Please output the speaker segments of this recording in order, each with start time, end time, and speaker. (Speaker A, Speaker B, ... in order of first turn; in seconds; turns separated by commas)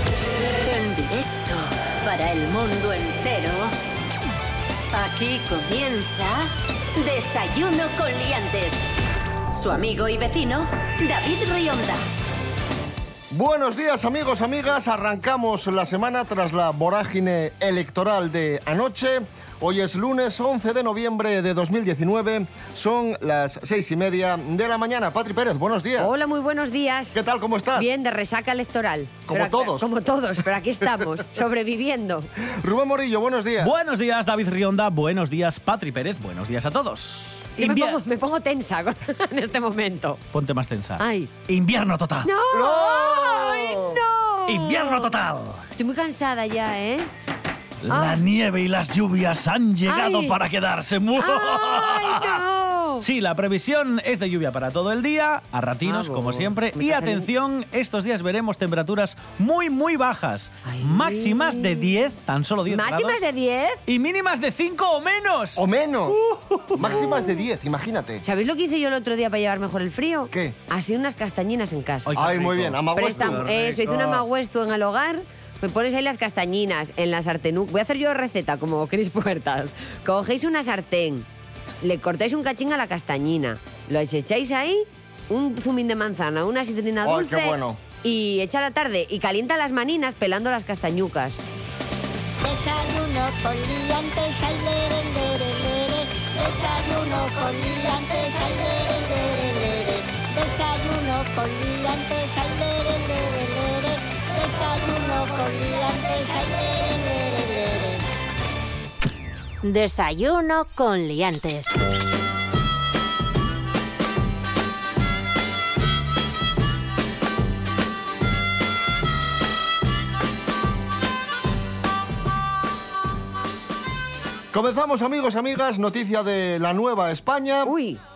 Speaker A: 0.5-3.7, Speaker A: 4.9-8.8, Speaker A: 9.5-12.0, Speaker B: 13.3-26.1, Speaker C: 26.0-27.2, Speaker B: 27.1-27.9, Speaker C: 27.7-32.3, Speaker B: 29.3-29.9, Speaker B: 32.4-33.7, Speaker D: 33.6-38.0, Speaker C: 37.6-40.2, Speaker D: 40.3-42.3, Speaker C: 41.0-41.3, Speaker C: 42.2-45.1, Speaker B: 42.5-44.0, Speaker D: 44.5-45.6, Speaker C: 45.7-47.1, Speaker D: 47.8-52.4, Speaker C: 47.9-48.2, Speaker C: 49.9-50.4, Speaker C: 51.2-53.0, Speaker D: 53.0-63.2, Speaker C: 55.8-57.3, Speaker C: 60.6-61.9, Speaker C: 62.7-63.8, Speaker D: 63.9-67.2, Speaker B: 65.6-66.2, Speaker B: 66.7-68.2, Speaker C: 66.8-67.3, Speaker C: 68.2-72.1, Speaker B: 70.3-70.6, Speaker D: 72.0-74.2, Speaker B: 72.1-73.5, Speaker C: 72.9-81.3, Speaker C: 81.8-91.4, Speaker B: 87.0-87.8, Speaker E: 92.4-108.0, Speaker A: 109.6-111.7, Speaker B: 124.5-127.7, Speaker C: 127.6-128.0